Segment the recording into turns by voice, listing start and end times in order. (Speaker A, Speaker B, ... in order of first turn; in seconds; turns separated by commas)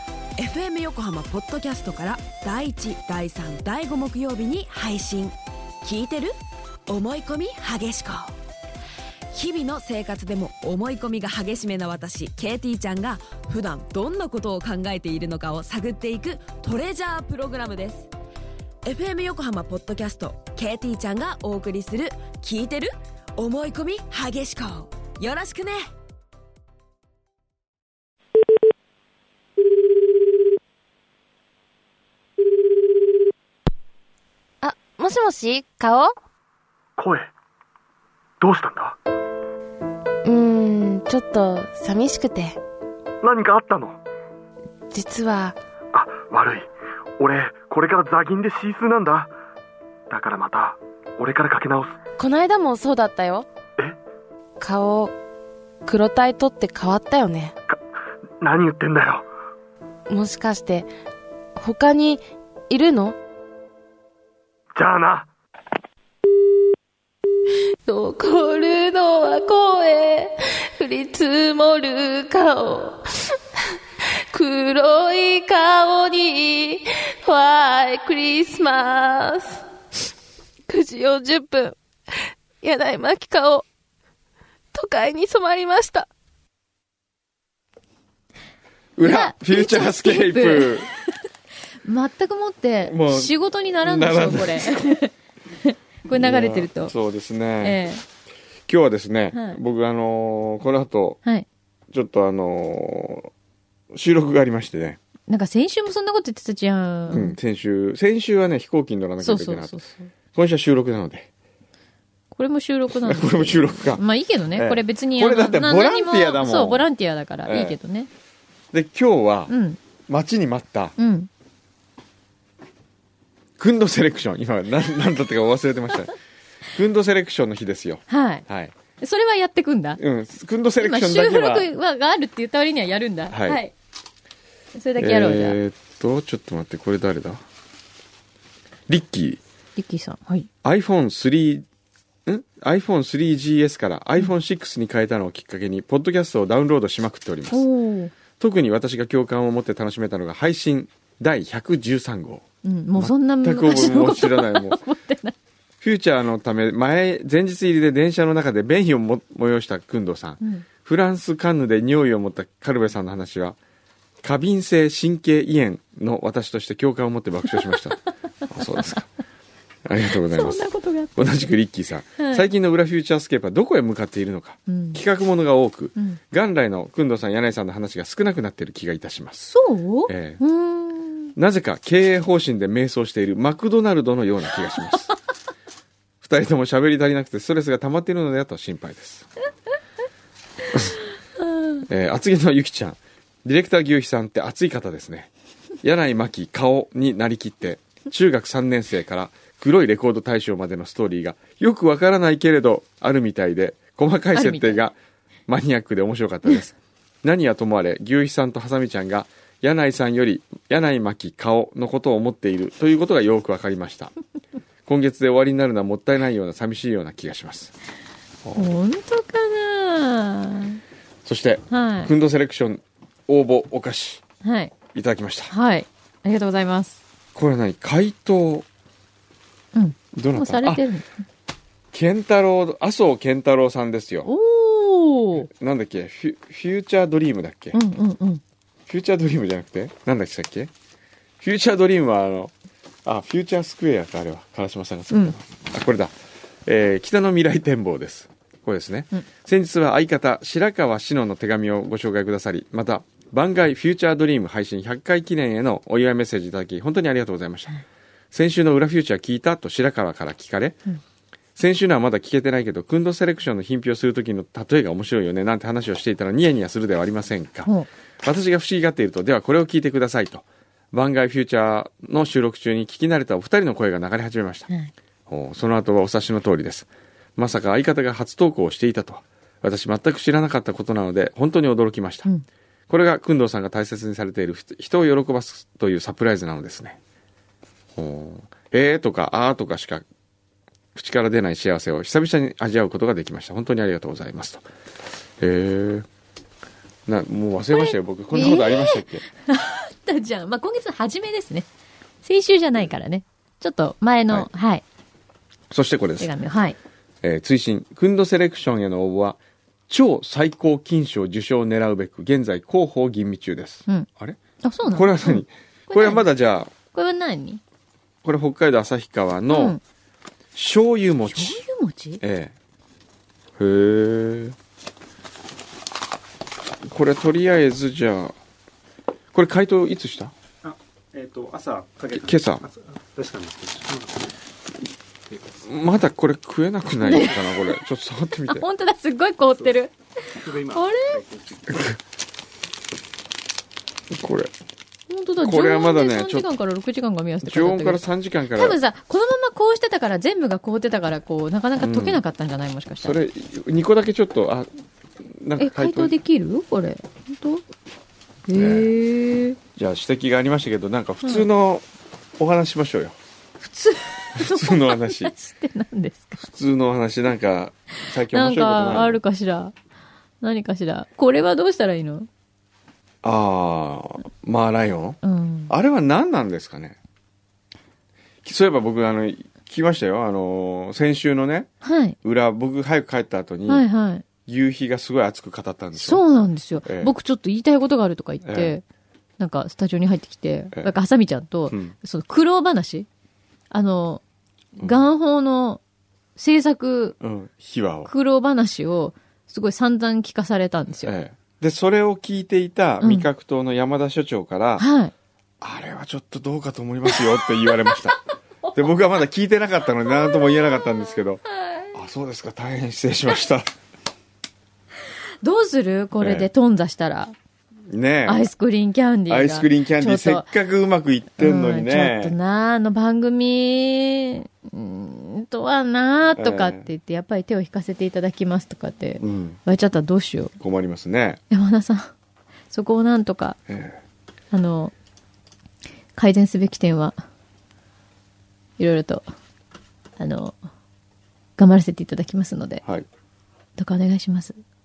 Speaker A: 0.4-6.3, Speaker A: 6.9-8.3, Speaker A: 9.3-18.1, Speaker A: 18.8-25.8, Speaker B: 34.6-36.1, Speaker C: 37.0-37.3, Speaker C: 38.4-39.0, Speaker B: 40.2-42.6, Speaker C: 43.2-44.0, Speaker B: 44.9-45.6, Speaker C: 45.9-46.7, Speaker C: 47.2-49.3, Speaker C: 50.1-52.0, Speaker B: 52.2-53.5, Speaker B: 54.6-55.1, Speaker B: 55.8-57.5, Speaker C: 58.4-59.2, Speaker B: 60.1-60.9, Speaker B: 61.6-63.1, Speaker C: 64.7-65.3, Speaker B: 67.8-73.0, Speaker B: 74.3-79.6, Speaker B: 80.7-81.8, Speaker B: 82.6-83.6, Speaker B: 84.7-86.1, Speaker D: 89.0-90.9, Speaker E: 89.0-91.0, Speaker E: 91.8-95.1, Speaker D: 92.8-94.9, Speaker E: 95.6-96.9, Speaker D: 96.1-97.8, Speaker E: 97.6-98.0, Speaker D: 98.7-101.2, Speaker E: 99.3-99.6, Speaker D: 101.9-103.3, Speaker D: 103.9-105.0, Speaker E: 105.3-107.4, Speaker D: 107.1-109.8, Speaker E: 109.2-110.1, Speaker D: 110.3-111.3, Speaker E: 112.3-118.1, Speaker D: 112.9-116.9, Speaker D: 117.5-117.8, Speaker D: 118.7-119.5, Speaker E: 119.5-119.8, Speaker D: 120.1-120.9, Speaker E: 121.0-121.3, Speaker D: 123.6-126.1, Speaker D: 126.7-128.7, Speaker E: 128.1-128.4, Speaker E: 129.0-130.0, Speaker D: 130.0-131.7, Speaker E: 130.8-133.7, Speaker D: 133.3-133.6, Speaker E: 134.7-135.6, Speaker D: 135.0-137.4, Speaker D: 138.9-139.4, Speaker E: 139.8-140.5, Speaker D: 140.6-141.7, Speaker D: 142.2-147.7, Speaker E: 147.5-148.1, Speaker D: 148.4-152.4, Speaker E: 152.6-155.3, Speaker D: 153.0-154.8, Speaker D: 155.8-163.6, Speaker D: 164.2-169.1, Speaker D: 169.8-179.5, Speaker E: 170.3-171.2, Speaker E: 172.2-172.4, Speaker E: 174.7-175.0, Speaker E: 179.5-181.3, Speaker D: 180.1-180.4, Speaker D: 181.3-185.1, Speaker D: 186.2-189.3, Speaker D: 191.8-195.3, Speaker D: 195.8-204.9, Speaker E: 204.3-204.8, Speaker D: 205.5-214.1, Speaker D: 214.8-217.7, Speaker D: 218.4-218.8, Speaker E: 218.6-220.8, Speaker D: 221.2-224.2, Speaker E: 221.7-222.1, Speaker E: 224.4-224.7, Speaker D: 224.9-225.5, Speaker E: 225.5-227.0, Speaker D: 227.3-228.7, Speaker E: 229.7-231.1, Speaker D: 230.1-230.9, Speaker D: 231.9-234.3, Speaker E: 234.2-235.5, Speaker D: 235.4-237.8, Speaker E: 237.7-238.4, Speaker D: 238.9-240.7, Speaker D: 241.4-242.5, Speaker D: 243.0-246.1, Speaker D: 246.7-257.8, Speaker D: 258.3-260.8, Speaker D: 261.6-267.7, Speaker D: 268.2-274.7, Speaker D: 275.3-282.3, Speaker D: 282.9-287.0, Speaker D: 287.9-290.0, Speaker D: 290.9-294.6, Speaker D: 295.4-296.1, Speaker D: 297.1-299.2, Speaker E: 297.7-301.7, Speaker E: 302.2-304.8, Speaker D: 305.7-306.3, Speaker E: 306.2-306.8, Speaker D: 307.2-316.7, Speaker E: 314.6-316.3, Speaker E: 316.9-317.6, Speaker D: 318.2-319.8, Speaker E: 319.5-319.8, Speaker D: 320.5-321.6, Speaker E: 321.2-322.2, Speaker D: 322.2-322.5, Speaker D: 323.6-324.6, Speaker D: 326.8-328.3, Speaker D: 329.3-330.3, Speaker D: 332.0-332.7, Speaker D: 335.6-338.6, Speaker E: 337.0-337.4, Speaker E: 338.5-341.3, Speaker D: 341.7-342.0, Speaker D: 344.1-344.5, Speaker E: 345.1-348.0, Speaker D: 345.4-346.5, Speaker D: 347.4-348.8, Speaker E: 348.5-353.2, Speaker D: 351.8-352.2, Speaker D: 353.0-354.7, Speaker D: 355.3-356.1, Speaker E: 355.6-357.6, Speaker E: 358.5-359.6, Speaker D: 358.5-358.9, Speaker D: 359.7-361.9, Speaker D: 362.4-363.2, Speaker E: 363.6-366.4, Speaker D: 364.3-365.3, Speaker D: 366.4-369.2, Speaker E: 368.3-369.7, Speaker E: 370.4-372.3, Speaker D: 373.2-377.0, Speaker E: 375.2-375.7, Speaker D: 378.4-381.7, Speaker E: 381.8-382.1, Speaker D: 382.2-383.9, Speaker E: 383.7-384.2, Speaker D: 384.4-386.2, Speaker E: 385.9-388.8, Speaker D: 386.8-387.1, Speaker D: 388.4-388.7, Speaker E: 389.4-393.1, Speaker D: 391.7-391.9, Speaker E: 393.7-394.2, Speaker D: 394.8-395.0, Speaker E: 394.8-395.8, Speaker E: 396.4-397.2, Speaker D: 397.2-398.1, Speaker E: 398.0-401.1, Speaker D: 401.0-404.9, Speaker E: 403.0-403.3, Speaker E: 404.8-405.1, Speaker D: 405.6-408.2, Speaker E: 407.1-407.9, Speaker D: 408.7-413.7, Speaker E: 410.1-411.0, Speaker E: 411.6-411.9, Speaker E: 415.4-417.3, Speaker D: 416.2-416.5, Speaker D: 417.9-418.5, Speaker E: 418.2-420.5, Speaker D: 419.3-422.3, Speaker E: 421.4-430.5, Speaker D: 426.4-426.9, Speaker D: 429.2-429.6, Speaker D: 430.6-431.4, Speaker E: 431.5-432.1, Speaker E: 432.7-433.6, Speaker D: 433.7-434.0, Speaker E: 434.5-434.9, Speaker E: 436.1-437.2, Speaker E: 438.8-439.2, Speaker E: 440.2-440.6, Speaker E: 441.6-442.8, Speaker E: 443.8-444.6